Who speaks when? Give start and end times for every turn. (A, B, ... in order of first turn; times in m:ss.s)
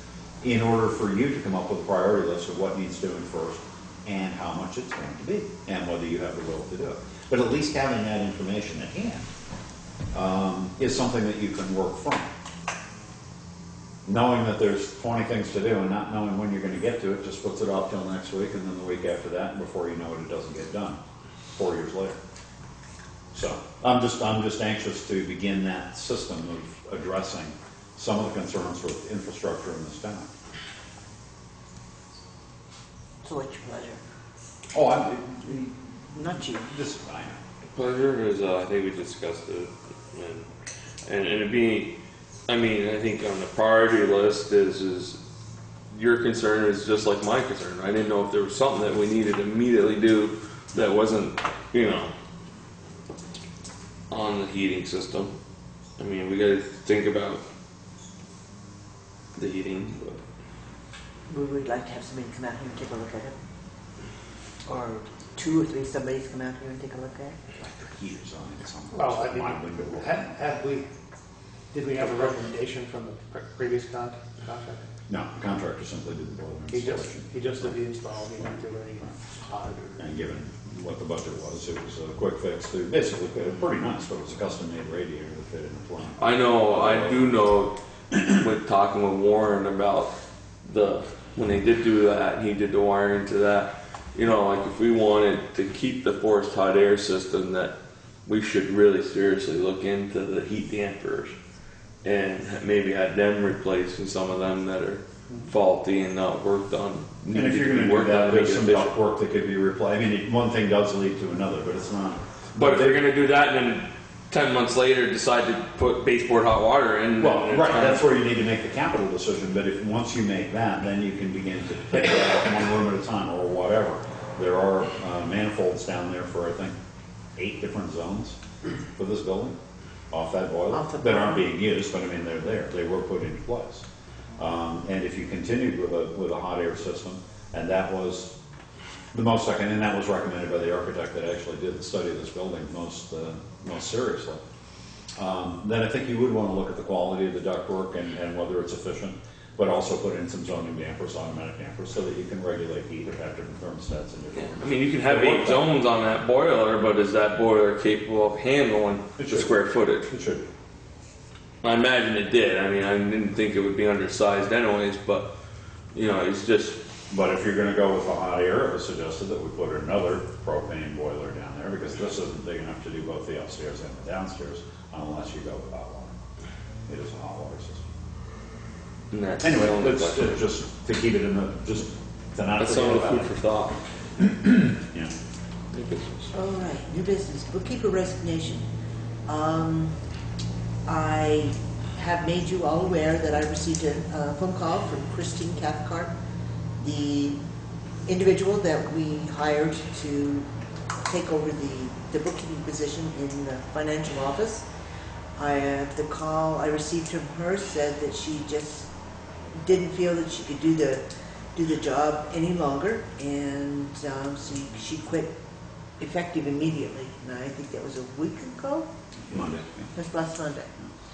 0:00.4-0:09.3 A
0:10.1-0:12.3 A
0:14.1-0:21.0 A
0:21.6-0:22.2 A
0:23.3-0:30.3 A
0:33.2-0:34.0 B
0:34.7-0:35.7 A
0:35.5-0:36.7 B
0:36.6-0:37.4 A
0:37.7-0:40.5 C
0:41.1-0:42.0 C
0:42.5-0:45.2 C
0:45.9-0:52.1 C
0:54.1-0:55.4 C
0:56.0-0:57.4 C
0:59.4-1:00.2 C
1:01.3-1:03.4 B
1:04.7-1:07.4 B
1:07.6-1:10.3 A
1:08.9-1:10.9 D
1:11.7-1:14.9 D
1:15.1-1:17.7 A
1:16.7-1:20.0 D
1:20.0-1:27.3 A
1:26.2-1:30.1 C
1:30.6-1:37.8 C
1:38.3-1:41.4 C
1:42.0-1:49.0 C
1:47.3-1:53.1 A
1:52.6-1:58.1 C
1:57.2-2:06.8 A
2:07.4-2:08.4 A
2:09.0-2:09.6 A
2:10.1-2:13.8 A
2:10.7-2:11.5 B
2:14.4-2:18.3 A
2:19.1-2:24.4 A
2:25.2-2:35.8 A
2:34.4-2:40.2 C
2:39.2-2:39.5 A
2:40.1-2:40.5 A
2:41.6-2:45.3 C
2:45.9-2:46.8 C
2:47.1-2:56.2 A
2:56.9-2:57.9 A
2:59.1-3:00.4 C
2:59.4-3:03.4 A
3:02.6-3:03.8 C
3:04.2-3:05.2 A
3:05.7-3:06.3 C
3:06.3-3:08.7 B
3:09.3-3:10.0 B
3:10.9-3:16.1 B
3:16.8-3:17.4 B
3:18.1-3:20.5 B
3:21.0-3:24.7 B
3:25.4-3:28.9 B
3:29.6-3:31.0 B
3:31.6-3:35.3 B
3:36.0-3:38.9 B
3:39.2-3:39.9 A
3:39.9-3:40.7 B